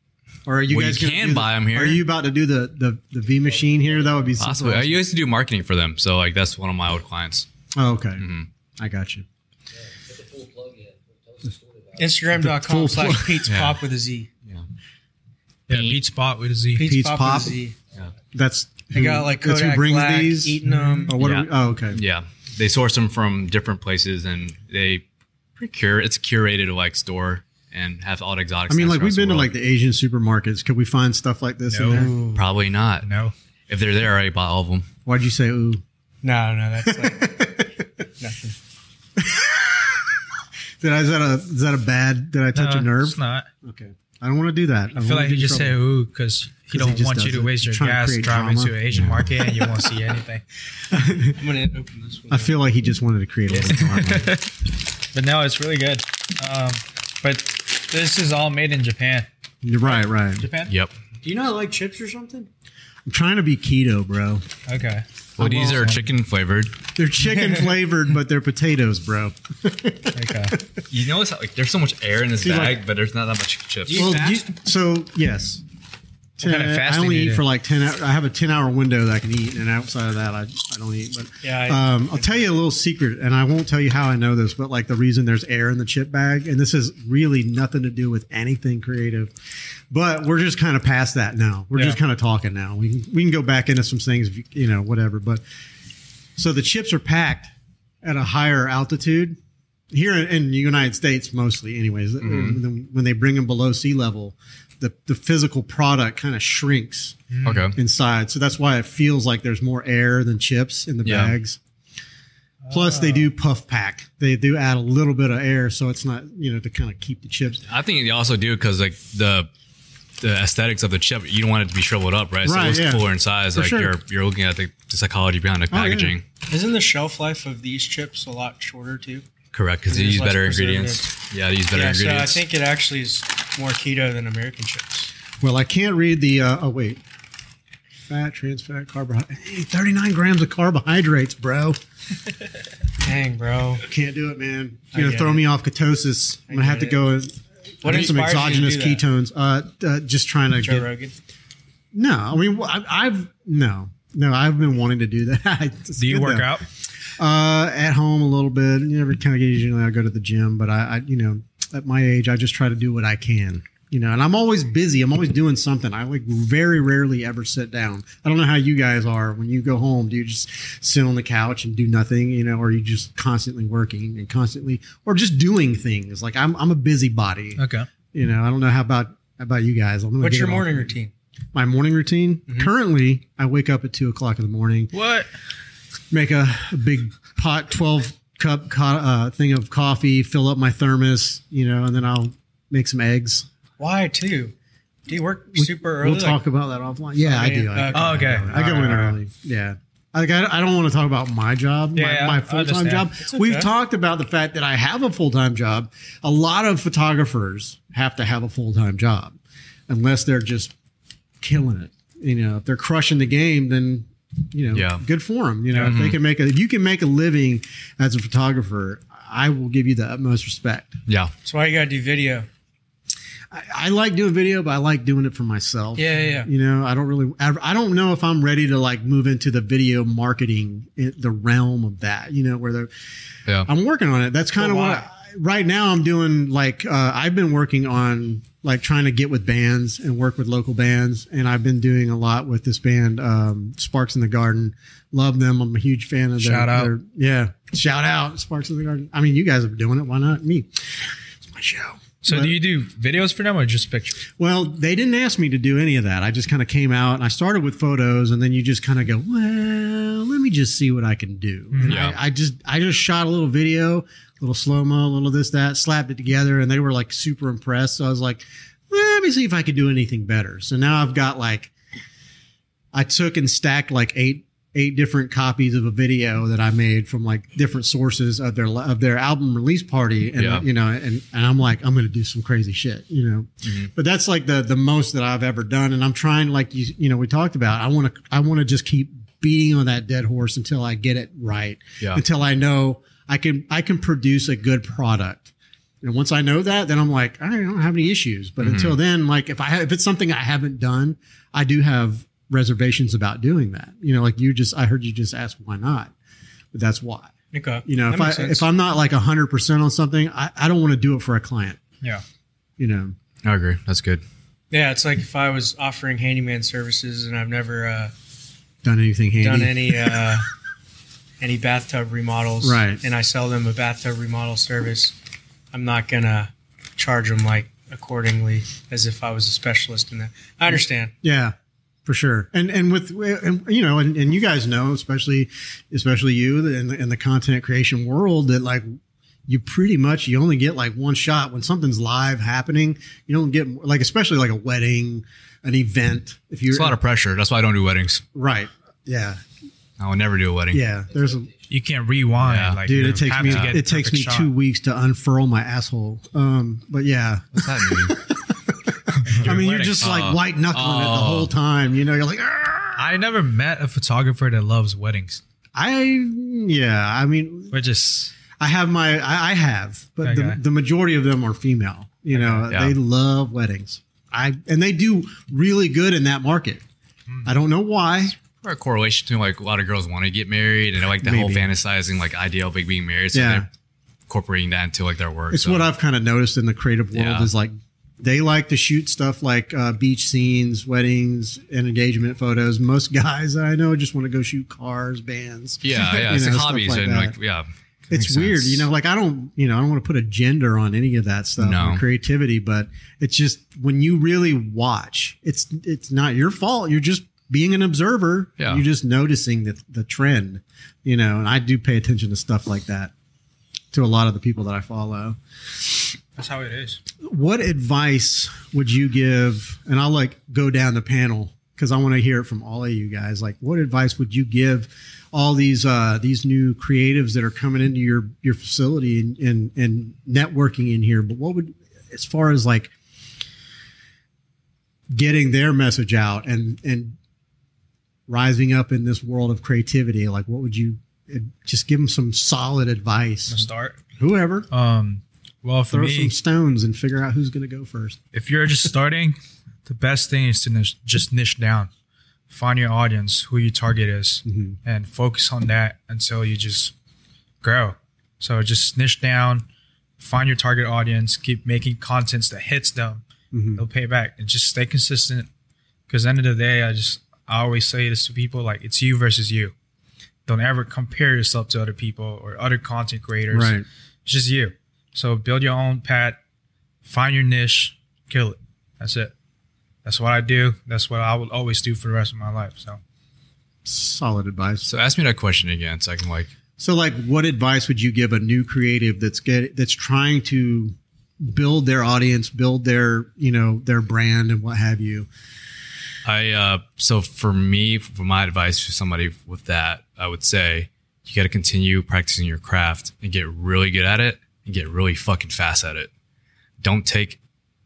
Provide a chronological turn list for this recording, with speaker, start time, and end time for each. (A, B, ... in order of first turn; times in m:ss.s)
0:00.4-0:05.0 A
0:00.7-0:02.0 B
0:03.6-0:04.3 C
0:04.4-0:07.4 B
0:07.7-0:08.2 A
0:08.2-0:08.5 B
0:08.8-0:09.3 A
0:09.7-0:12.3 C
0:12.0-0:14.3 D
0:12.3-0:13.5 A
0:13.4-0:13.8 B
0:15.7-0:16.9 E
0:15.7-0:16.0 B
0:16.7-0:17.8 D
0:16.8-0:17.6 A
0:18.3-0:22.0 A
0:18.9-0:21.2 D
0:20.6-0:21.2 E
0:21.2-0:25.0 B
0:25.6-0:29.5 B
0:28.7-0:32.2 A
0:31.7-0:32.1 E
0:31.8-0:32.4 D
0:32.4-0:33.1 B
0:33.0-0:33.3 E
0:33.7-0:34.9 B
0:35.1-0:35.8 A
0:36.2-0:37.4 D
0:36.8-0:37.8 A
0:38.2-0:38.6 D
0:39.2-0:40.2 A
0:40.8-0:45.8 A
0:42.6-0:43.5 E
0:44.9-0:50.4 E
0:46.7-0:48.8 A
0:48.9-0:49.3 B
0:49.4-0:49.8 A
0:50.9-0:51.4 A
0:51.4-0:52.6 D
0:52.3-0:54.4 A
0:53.6-0:54.5 E
0:55.1-0:59.3 E
0:59.6-1:00.4 A
1:00.4-1:00.7 E
1:00.7-1:00.9 B
1:01.2-1:02.5 D
1:03.1-1:04.4 A
1:04.7-1:06.1 E
1:05.4-1:05.9 A
1:05.4-1:06.7 B
1:07.0-1:10.7 A
1:10.1-1:10.6 E
1:10.9-1:14.1 B
1:12.4-1:12.8 A
1:13.9-1:14.5 D
1:13.9-1:15.6 A
1:16.4-1:29.3 A
1:16.4-1:17.4 E
1:21.4-1:22.4 D
1:29.9-1:35.4 A
1:36.4-1:37.5 A
1:38.0-1:39.4 A
1:39.9-1:51.6 A
1:42.2-1:42.6 B
1:47.3-1:47.7 E
1:47.4-1:47.8 B
1:51.0-1:51.4 B
1:52.6-1:53.3 E
1:52.7-1:57.6 A
1:57.7-1:59.5 B
2:00.2-2:06.2 B
2:02.4-2:03.9 A
2:05.7-2:06.1 A
2:06.5-2:09.3 D
2:09.5-2:12.4 B
2:09.9-2:11.1 D
2:11.7-2:15.1 D
2:15.4-2:17.0 A
2:18.1-2:21.8 A
2:23.0-2:23.8 D
2:23.8-2:30.9 A
2:24.9-2:25.4 D
2:26.5-2:27.0 D
2:27.8-2:29.0 D
2:30.6-2:31.1 D
2:31.9-2:36.5 A
2:36.0-2:36.6 E
2:37.2-2:57.6 A
2:57.6-2:57.9 E
2:58.1-3:00.9 A
3:00.2-3:01.1 D
3:01.5-3:04.9 A
3:04.9-3:05.3 E
3:06.1-3:13.5 A
3:13.8-3:14.5 D
3:15.1-3:16.4 D
3:15.5-3:29.4 A
3:17.2-3:18.5 D
3:17.9-3:19.2 E
3:22.0-3:23.1 E
3:23.3-3:23.7 D
3:29.9-3:30.7 A
3:31.4-3:40.9 A
3:34.7-3:35.0 B
3:35.8-3:36.2 B
3:41.1-3:41.3 B
3:41.4-3:42.5 D
3:43.5-3:52.9 A
3:46.0-3:46.5 D
3:53.6-4:12.6 A
3:54.6-3:55.0 D
4:06.4-4:06.9 E
4:12.2-4:14.2 E
4:14.4-4:31.7 A
4:21.7-4:22.0 E
4:21.8-4:22.2 B
4:32.9-4:55.5 A
4:40.4-4:40.6 B
4:43.6-4:43.9 B
4:56.0-5:06.1 A
4:58.6-4:59.0 B
5:06.7-5:07.3 A
5:07.5-5:08.6 D
5:07.8-5:11.8 A
5:12.8-5:13.1 A
5:13.4-5:14.2 B
5:14.7-5:18.1 D
5:18.8-5:20.4 A
5:19.4-5:20.5 D
5:21.4-5:25.2 D
5:22.6-5:23.0 A
5:25.7-5:31.1 D
5:31.2-5:31.6 A
5:32.1-5:38.9 A
5:39.5-5:47.0 A
5:46.7-5:48.2 B
5:48.3-5:49.4 A
5:50.0-5:50.8 B
5:50.7-5:51.5 A
5:51.7-5:54.5 E
5:52.4-5:53.8 B
5:52.8-6:03.1 A
5:57.6-5:58.2 B
5:59.2-6:00.1 E
6:00.0-6:01.5 B
6:03.0-6:05.4 E
6:05.7-6:07.7 A
6:07.7-6:08.3 E
6:08.6-6:16.8 A
6:10.2-6:10.6 E
6:12.3-6:12.6 E
6:12.7-6:12.9 B
6:17.4-6:18.4 A
6:18.6-6:23.7 B
6:21.2-6:21.7 A
6:23.3-6:23.7 A
6:24.3-6:25.9 B
6:25.5-6:37.4 A
6:27.1-6:27.5 B
6:35.8-6:38.8 B
6:38.1-6:53.1 A
6:41.6-6:42.0 B
6:48.6-6:48.8 B
6:53.9-6:56.1 A
6:56.4-6:57.0 E
6:57.2-7:12.9 A
7:15.1-7:17.2 A
7:18.3-7:24.7 A
7:23.5-7:24.0 E
7:24.7-7:26.4 E
7:25.9-7:28.2 A
7:28.3-7:31.9 E
7:32.5-7:36.9 E
7:34.4-7:34.8 A
7:37.6-7:39.6 E
7:40.2-7:43.2 E
7:43.5-7:43.8 A
7:43.8-7:45.5 E
7:46.1-7:49.7 E
7:50.4-7:56.4 E
7:53.5-7:53.8 A
7:57.0-7:59.3 E
8:00.0-8:03.0 E
8:03.8-8:04.9 A
8:04.8-8:06.5 B
8:06.8-8:15.3 A
8:16.2-8:26.1 B
8:26.8-8:27.4 B